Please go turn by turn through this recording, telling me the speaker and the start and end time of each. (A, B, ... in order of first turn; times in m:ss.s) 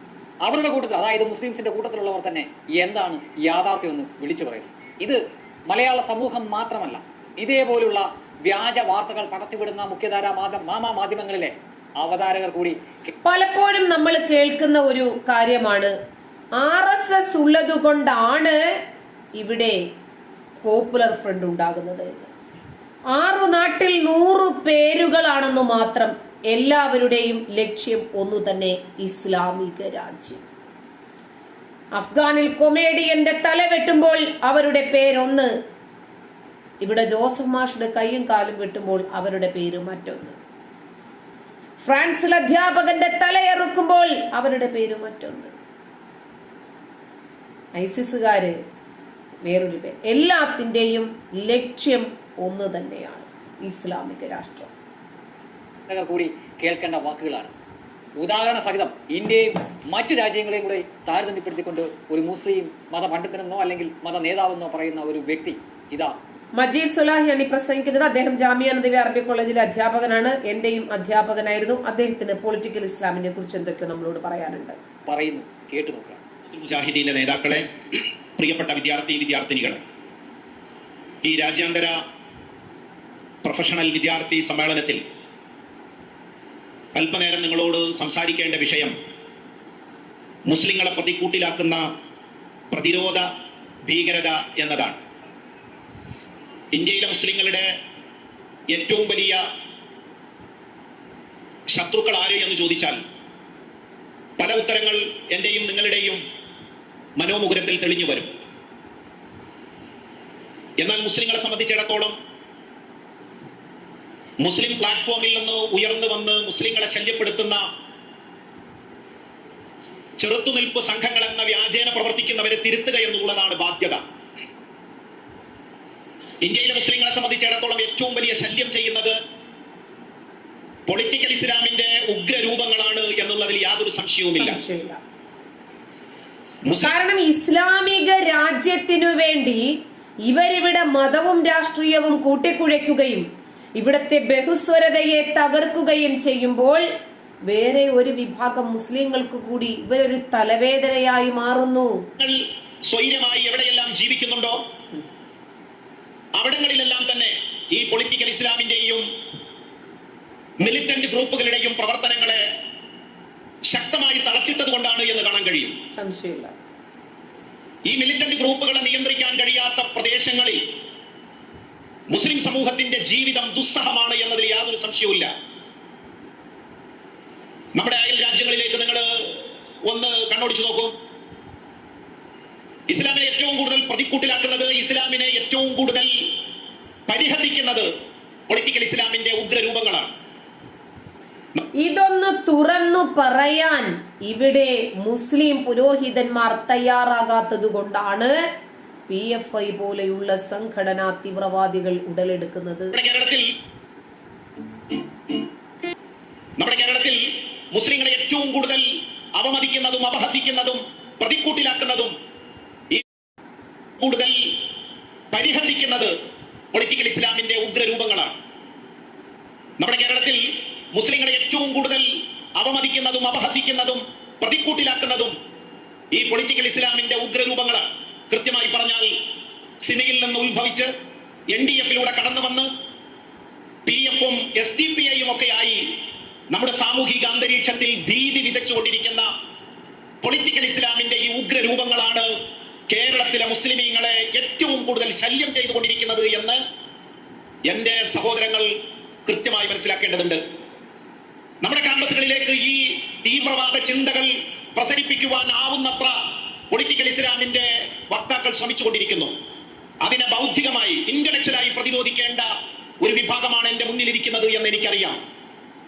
0:00.4-0:13.1 A
0:13.2-0:15.9 B
0:16.6-0:18.6 B
0:19.4-0:19.8 B
0:20.6-0:22.3 B
0:23.1-0:30.4 B
0:31.9-0:35.5 B
0:36.8-0:40.4 B
0:41.8-0:45.5 B
0:47.8-0:48.5 B
0:49.4-0:54.7 B
0:55.9-0:57.5 A
0:58.2-1:06.1 A
1:06.6-1:14.8 B
1:15.1-1:16.2 A
1:16.5-1:19.8 C
1:21.2-1:22.0 C
1:23.4-1:25.0 C
1:26.9-1:28.9 C
1:30.5-1:31.8 C
1:32.7-1:33.3 C
1:33.9-1:35.0 C
1:36.7-1:37.7 C
1:38.7-1:39.4 C
1:41.7-1:43.0 C
1:44.4-1:46.2 C
1:47.2-1:48.3 C
1:50.8-1:52.1 C
1:54.4-1:57.6 C
2:00.2-2:04.0 C
2:06.4-2:09.2 C
2:10.9-2:14.6 C
2:14.3-2:15.0 B
2:16.7-2:16.9 C
2:16.8-2:19.7 B
2:20.3-2:23.2 B
2:23.8-2:26.8 B
2:27.5-2:32.0 B
2:32.2-2:34.6 C
2:36.4-2:39.0 C
2:40.6-2:42.4 C
2:43.7-2:45.8 C
2:45.9-2:46.5 B
2:47.9-2:50.6 C
2:52.1-2:55.3 C
2:57.8-3:00.9 C
3:02.9-3:06.3 C
3:07.1-3:07.9 C
3:08.5-3:10.1 C
3:11.8-3:18.4 B
3:19.1-3:22.9 B
3:22.9-3:23.5 C
3:26.6-3:27.2 C
3:27.7-3:32.1 C
3:34.0-3:34.6 C
3:35.3-3:36.1 C
3:36.7-3:38.4 C
3:39.8-3:42.1 C
3:42.6-3:45.3 C
3:46.1-3:49.1 C
3:49.8-3:50.9 C
3:51.5-3:52.7 C
3:53.8-3:55.8 C
3:56.5-3:59.3 C
4:00.2-4:02.3 C
4:02.9-4:06.6 C
4:07.7-4:08.7 C
4:09.2-4:10.4 C
4:11.6-4:16.1 C
4:16.7-4:19.3 C
4:20.0-4:22.5 C
4:23.0-4:25.2 C